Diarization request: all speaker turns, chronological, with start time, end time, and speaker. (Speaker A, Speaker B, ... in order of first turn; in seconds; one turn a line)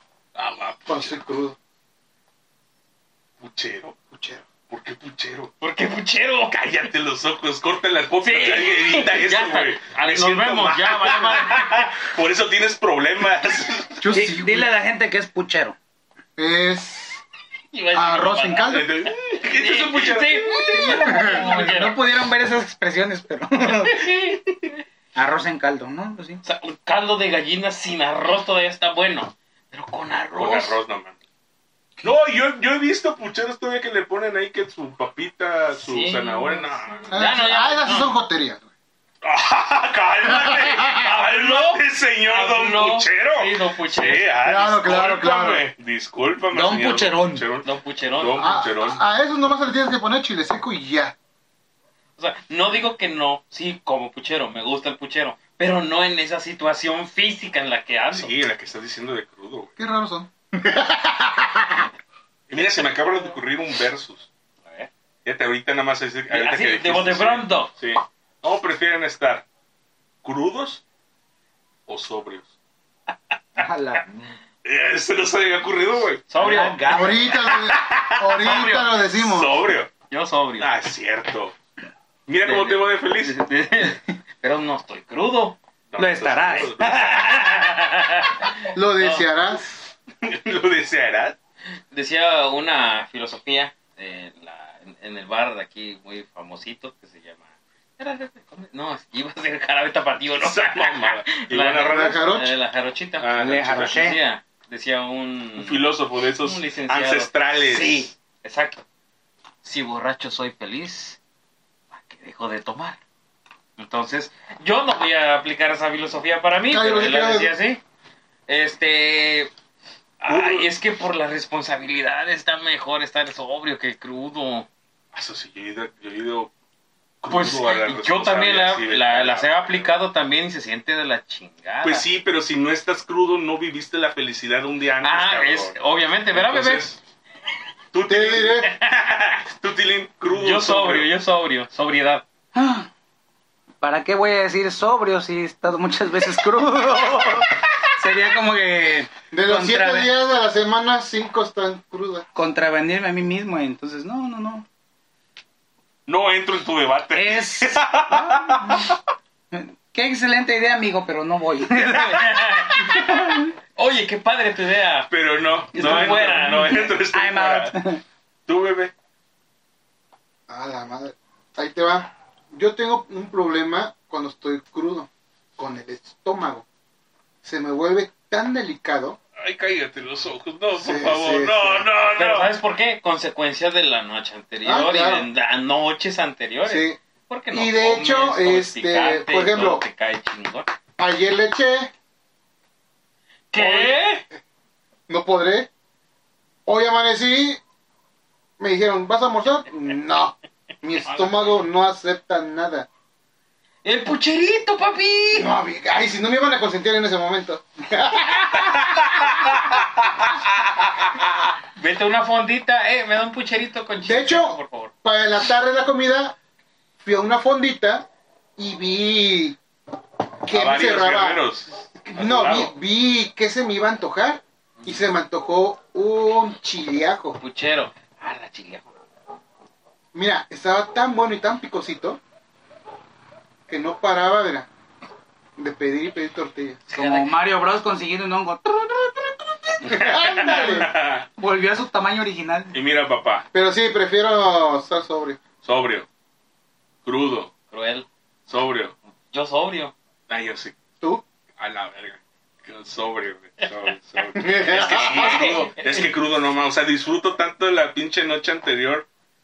Speaker A: 0.3-1.2
Speaker B: 0.9-1.6
Speaker A: 3.4-4.0
Speaker B: 4.1-4.4
Speaker A: 4.7-5.5
Speaker C: 5.6-6.6
Speaker A: 6.5-14.1
Speaker C: 8.2-11.9
Speaker B: 14.0-14.7
Speaker D: 14.1-15.8
Speaker B: 16.4-17.2
Speaker C: 17.7-22.0
Speaker B: 17.9-18.9
Speaker A: 18.6-20.6
Speaker D: 20.7-24.3
Speaker B: 20.9-21.5
Speaker C: 23.8-24.4
Speaker D: 25.1-26.4
Speaker C: 26.4-30.8
Speaker A: 30.4-31.1
Speaker A: 32.0-37.1
Speaker C: 35.8-38.1
Speaker B: 37.1-38.7
Speaker A: 39.2-49.0
Speaker B: 40.2-41.0
Speaker C: 40.9-44.2
Speaker B: 44.4-45.7
Speaker D: 46.5-47.5
Speaker C: 47.6-48.5
Speaker B: 48.4-51.1
Speaker C: 52.2-58.3
Speaker A: 58.1-59.7
Speaker B: 59.8-61.8
Speaker A: 62.5-64.3
Speaker C: 64.6-64.9
Speaker A: 65.2-69.4
Speaker C: 66.3-67.7
Speaker A: 70.2-70.8
Speaker A: 71.9-72.5
Speaker D: 73.6-74.2
Speaker A: 74.6-76.2
Speaker C: 76.3-77.1
Speaker D: 76.4-77.4
Speaker B: 76.9-79.5
Speaker A: 77.5-79.9
Speaker C: 78.5-78.7
Speaker C: 80.1-80.7
Speaker A: 80.6-81.5
Speaker A: 82.3-83.4
Speaker C: 82.4-85.6
Speaker A: 85.9-87.5
Speaker D: 86.0-87.5
Speaker C: 87.1-89.3
Speaker B: 88.7-89.8
Speaker A: 90.2-91.3
Speaker C: 91.9-105.8
Speaker A: 100.4-102.3
Speaker B: 101.8-102.5
Speaker A: 103.2-104.0
Speaker D: 103.3-104.2
Speaker A: 105.6-108.1
Speaker C: 106.4-108.8
Speaker D: 107.7-108.1
Speaker C: 109.6-111.2
Speaker C: 111.9-113.0
Speaker C: 113.8-117.8
Speaker B: 116.7-117.5
Speaker C: 118.5-119.5
Speaker C: 120.2-124.7
Speaker A: 120.3-120.7
Speaker A: 125.1-126.5
Speaker A: 127.2-129.9
Speaker C: 127.3-132.1
Speaker A: 131.8-135.7
Speaker C: 135.0-136.9
Speaker A: 136.3-137.0
Speaker A: 137.9-141.1
Speaker B: 138.1-138.7
Speaker C: 140.3-142.2
Speaker D: 142.5-142.9
Speaker D: 143.8-150.1
Speaker B: 149.3-152.2
Speaker D: 152.3-154.7
Speaker A: 156.1-158.9
Speaker D: 157.1-158.9
Speaker D: 159.5-163.5
Speaker C: 161.9-163.1
Speaker C: 163.8-165.1
Speaker A: 165.1-167.8
Speaker C: 165.7-166.9
Speaker D: 165.8-166.1
Speaker D: 167.1-168.0
Speaker A: 168.5-168.9
Speaker B: 170.5-176.7
Speaker B: 177.4-179.2
Speaker A: 179.4-182.5
Speaker B: 180.8-181.9
Speaker C: 182.1-190.7
Speaker B: 184.6-185.3
Speaker B: 186.7-187.0
Speaker B: 187.5-189.8
Speaker B: 191.0-191.9
Speaker C: 193.5-194.2
Speaker B: 193.6-194.0
Speaker B: 195.1-195.7
Speaker B: 196.7-197.6
Speaker B: 198.6-202.9
Speaker C: 203.8-205.5
Speaker B: 205.3-209.6
Speaker C: 211.8-214.9
Speaker B: 214.0-216.3
Speaker B: 217.0-219.6
Speaker B: 220.4-221.5
Speaker A: 220.5-222.7
Speaker B: 222.0-227.4
Speaker C: 227.4-228.9
Speaker B: 230.1-232.2
Speaker B: 233.7-234.7
Speaker B: 235.6-236.8
Speaker C: 236.9-237.3
Speaker D: 236.9-239.3
Speaker B: 239.8-240.9
Speaker A: 239.9-241.3
Speaker D: 240.0-242.7
Speaker A: 242.7-243.5
Speaker B: 243.5-245.4
Speaker A: 245.6-246.1
Speaker A: 247.0-247.5
Speaker C: 247.7-248.1
Speaker A: 248.5-248.9
Speaker C: 249.3-249.9
Speaker A: 250.3-250.8
Speaker A: 251.6-259.1
Speaker B: 254.3-255.6
Speaker C: 254.7-256.1